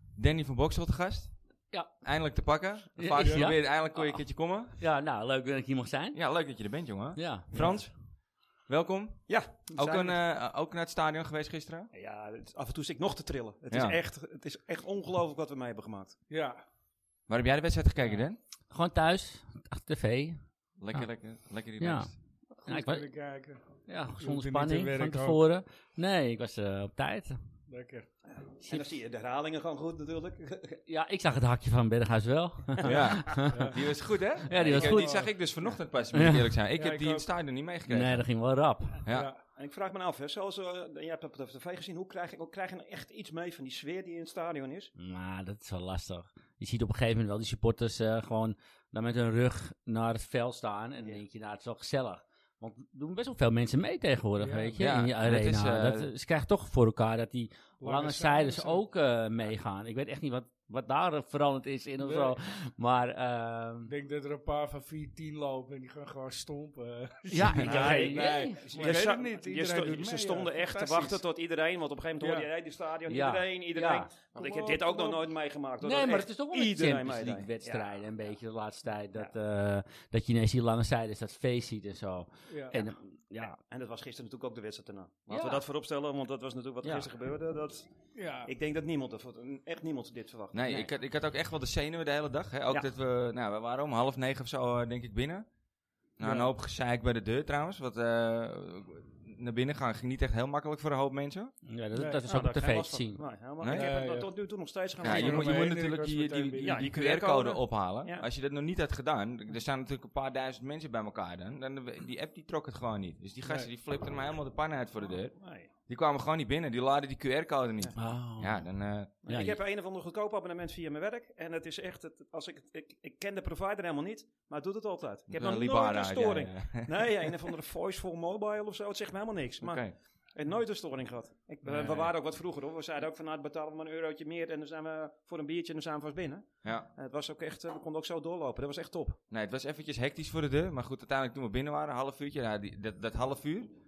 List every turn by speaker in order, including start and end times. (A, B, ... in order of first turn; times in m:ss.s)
0:00.2-0:01.3 A
0:02.0-0:04.8 A
0:03.0-0:04.2 B
0:03.2-0:03.5 C
0:04.8-0:06.2 B
0:06.1-0:07.9 A
0:07.2-0:07.8 B
0:07.6-0:07.8 D
0:08.7-0:11.9 A
0:09.3-0:10.2 D
0:11.9-0:16.2 D
0:13.7-0:14.0 A
0:16.3-0:16.6 C
0:17.3-0:18.4 A
0:18.7-0:20.4 B
0:20.8-0:22.1 A
0:21.8-0:23.1 B
0:22.7-0:25.4 C
0:23.9-0:27.4 B
0:27.7-0:28.1 C
0:28.3-0:30.8 D
0:28.6-0:28.9 B
0:30.9-0:33.8 B
0:32.8-0:38.2 A
0:33.5-0:33.8 C
0:34.5-0:35.3 B
0:34.6-0:35.0 D
0:34.7-0:35.3 C
0:36.1-0:36.5 B
0:36.8-0:37.3 C
0:37.9-0:39.0 B
0:39.0-0:39.3 A
0:39.1-0:39.4 C
0:39.6-0:44.9 D
0:45.0-1:03.9 B
0:54.4-0:54.9 C
0:54.8-0:56.1 A
0:57.8-0:58.8 C
1:02.0-1:02.4 C
1:03.9-1:11.2 C
1:07.3-1:09.0 B
1:07.6-1:18.1 D
1:12.2-1:12.5 C
1:13.1-1:14.1 B
1:14.4-1:15.2 C
1:15.8-1:23.6 B
1:22.5-1:22.8 C
1:23.4-1:27.9 D
1:28.2-1:28.5 C
1:28.4-1:30.6 D
1:30.5-1:35.5 A
1:36.2-1:41.5 A
1:36.2-1:36.5 C
1:41.7-1:43.2 B
1:41.9-1:42.2 C
1:42.2-1:45.7 D
1:43.6-1:43.9 A
1:43.7-1:44.3 C
1:45.0-1:59.1 A
1:45.0-1:46.9 C
1:46.6-1:48.2 D
1:55.4-1:55.7 D
1:58.0-1:58.7 B
1:59.2-2:09.8 D
1:59.3-1:59.6 B
2:05.3-2:07.2 A
2:09.6-2:09.9 A
2:10.4-2:19.2 D
2:11.7-2:12.0 C
2:16.6-2:16.9 A
2:19.3-2:23.7 A